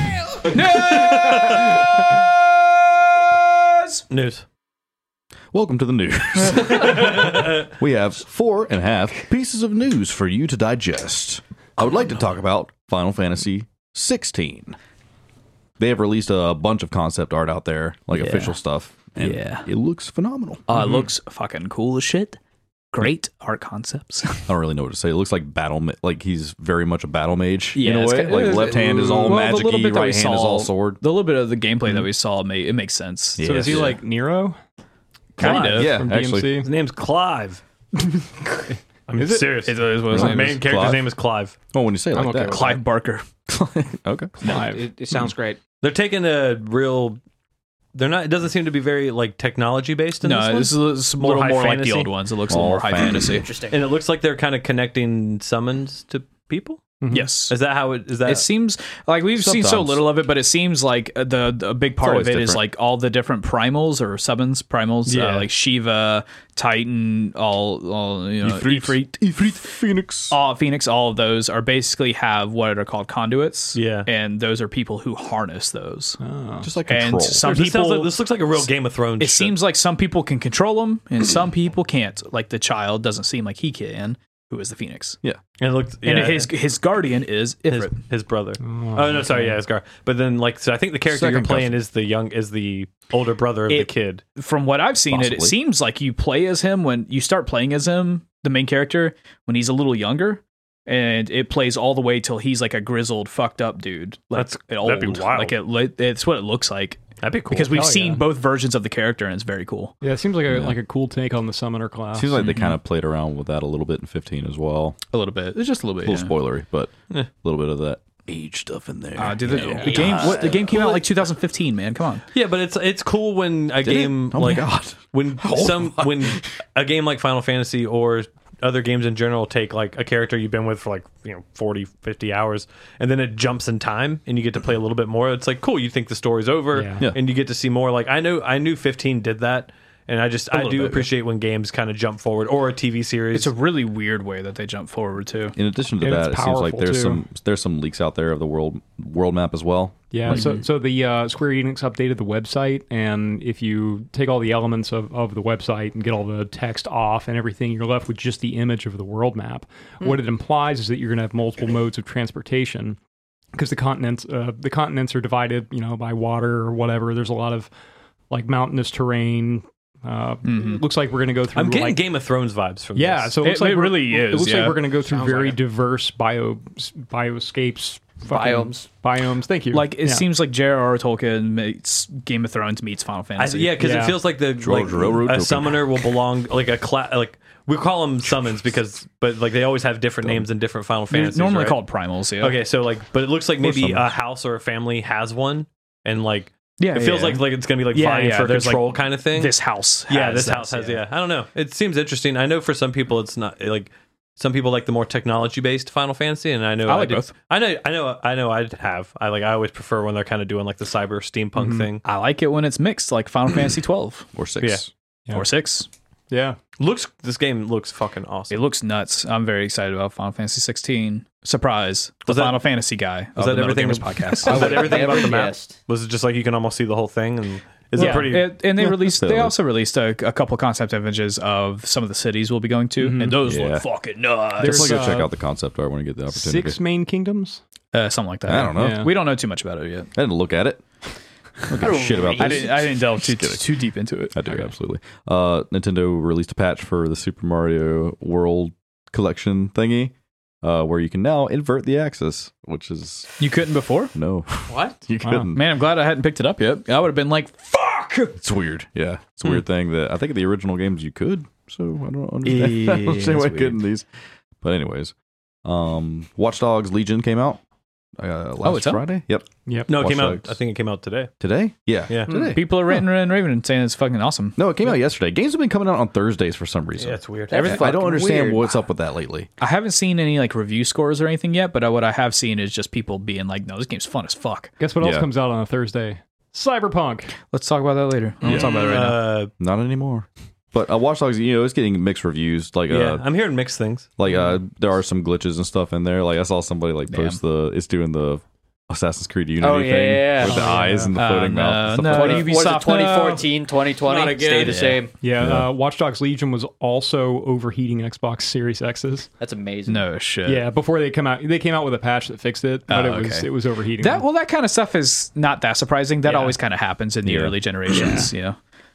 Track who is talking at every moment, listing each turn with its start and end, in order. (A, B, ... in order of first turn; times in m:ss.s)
0:00.5-0:01.8 A
0:00.7-0:01.8 B
0:03.4-0:04.0 A
0:04.1-0:04.4 B
0:05.5-0:14.8 C
0:06.6-0:07.6 B
0:15.8-0:20.7 C
0:18.2-0:18.6 A
0:19.2-0:19.7 A
0:20.7-0:22.4 A
0:20.8-0:21.0 D
0:22.9-0:24.5 A
0:24.5-0:31.0 C
0:27.7-0:33.9 A
0:33.4-0:34.0 C
0:33.4-0:34.6 D
0:35.4-0:35.9 A
0:35.4-0:36.7 D
0:35.4-0:36.6 C
0:36.6-0:37.6 B
0:39.1-0:41.5 B
0:39.2-0:39.6 D
0:39.6-0:40.6 A
0:40.1-0:41.1 C
0:41.7-0:42.8 C
0:42.2-0:42.7 D
0:42.5-0:43.2 A
0:43.5-0:44.5 C
0:44.4-0:44.9 D
0:44.4-0:45.6 E
0:45.8-0:47.2 B
0:47.9-0:52.1 B
0:50.2-0:53.4 A
0:52.5-0:53.4 C
0:53.2-0:53.8 F
0:53.7-0:57.0 B
0:57.0-0:57.3 D
0:57.1-0:57.6 A
0:57.5-0:58.5 B
0:58.2-1:09.2 A
0:59.4-1:00.1 C
1:02.0-1:02.6 C
1:05.1-1:05.5 B
1:08.4-1:10.4 C
1:10.3-1:16.2 A
1:13.7-1:14.1 B
1:16.2-1:16.7 D
1:16.6-1:17.5 C
1:16.9-1:18.1 A
1:17.4-1:19.6 B
1:19.2-1:25.2 A
1:25.6-1:26.5 B
1:26.0-1:27.9 A
1:27.7-1:34.2 B
1:28.6-1:29.6 D
1:31.1-1:31.8 C
1:33.7-1:50.0 A
1:35.1-1:35.6 C
1:44.3-1:45.6 B
1:47.2-1:47.8 B
1:47.7-1:48.3 D
1:50.0-1:52.5 D
1:52.1-1:55.0 C
1:52.4-1:52.8 A
1:55.1-1:56.3 A
1:56.0-2:00.8 C
1:59.2-2:02.2 A
1:59.8-2:00.8 F
2:02.3-2:23.5 B
2:03.8-2:06.4 C
2:16.7-2:17.1 D
2:20.5-2:21.1 A
2:23.3-2:25.6 A
2:25.6-2:30.5 C
2:26.0-2:27.2 D
2:30.1-2:43.0 D
2:30.3-2:30.6 A
2:43.5-2:47.7 D
2:48.3-2:52.0 D
2:50.4-2:50.8 A
2:51.5-2:53.4 B
2:52.9-3:00.3 D
2:53.4-2:54.8 A
2:55.1-2:55.6 E
2:58.2-2:58.9 F
2:59.7-3:03.8 A
3:03.4-3:11.8 B
3:03.8-3:04.2 D
3:04.6-3:05.8 C
3:11.1-3:12.6 A
3:12.4-3:32.0 B
3:13.6-3:14.1 C
3:16.8-3:21.0 A
3:26.8-3:27.3 A
3:31.6-3:31.9 D
3:32.0-3:34.3 A
3:34.3-3:34.9 C
3:35.3-3:35.9 A
3:36.3-3:36.6 D
3:36.8-3:38.6 B
3:38.5-3:45.3 A
3:42.3-3:42.6 B
3:43.4-3:48.5 B
3:44.4-3:45.8 F
3:48.0-3:48.3 D
3:48.0-3:55.2 A
3:48.8-3:49.5 C
3:53.0-3:53.4 D
3:53.4-3:53.8 C
3:54.6-3:55.3 D
3:54.6-3:56.8 C
3:56.3-3:57.6 D
3:57.9-4:00.1 A
3:58.5-3:59.1 C
3:58.7-3:59.1 D
4:00.1-4:00.8 C
4:01.7-4:03.8 C
4:01.8-4:02.8 F
4:02.4-4:04.7 A
4:04.3-4:13.4 C
4:13.4-4:14.1 A
4:14.1-4:15.6 C
4:14.7-4:15.0 E
4:15.2-4:15.5 D
4:15.5-4:18.4 A
4:18.4-4:24.1 C
4:22.4-4:23.5 B
4:24.6-4:25.1 C
4:25.6-4:27.6 C
4:28.2-4:30.6 C
4:28.6-4:29.0 A
4:29.6-4:29.9 D
4:29.9-4:31.3 B
4:31.4-4:32.7 C
4:32.1-4:32.3 B
4:32.3-4:34.6 A
4:34.6-4:39.5 C
4:37.0-4:37.7 B
4:37.5-4:38.8 F
4:39.6-4:44.7 A
4:44.8-4:47.3 D
4:45.0-4:45.3 C
4:47.5-4:49.2 A
4:48.4-4:48.7 C
4:48.4-4:49.5 B
4:49.6-4:53.2 C
4:52.9-4:54.1 B
4:54.2-5:02.5 C
4:57.1-4:57.4 A
4:59.6-5:00.7 F
5:00.4-5:01.1 D
5:01.1-5:03.4 A
5:02.1-5:05.1 F
5:04.0-5:05.0 E
5:04.6-5:05.0 A
5:05.2-5:09.3 D
5:05.4-5:05.7 C
5:09.4-5:10.0 F
5:09.9-5:10.7 A
5:10.4-5:14.2 D
5:12.9-5:18.6 A
5:16.2-5:16.6 D
5:17.2-5:18.2 C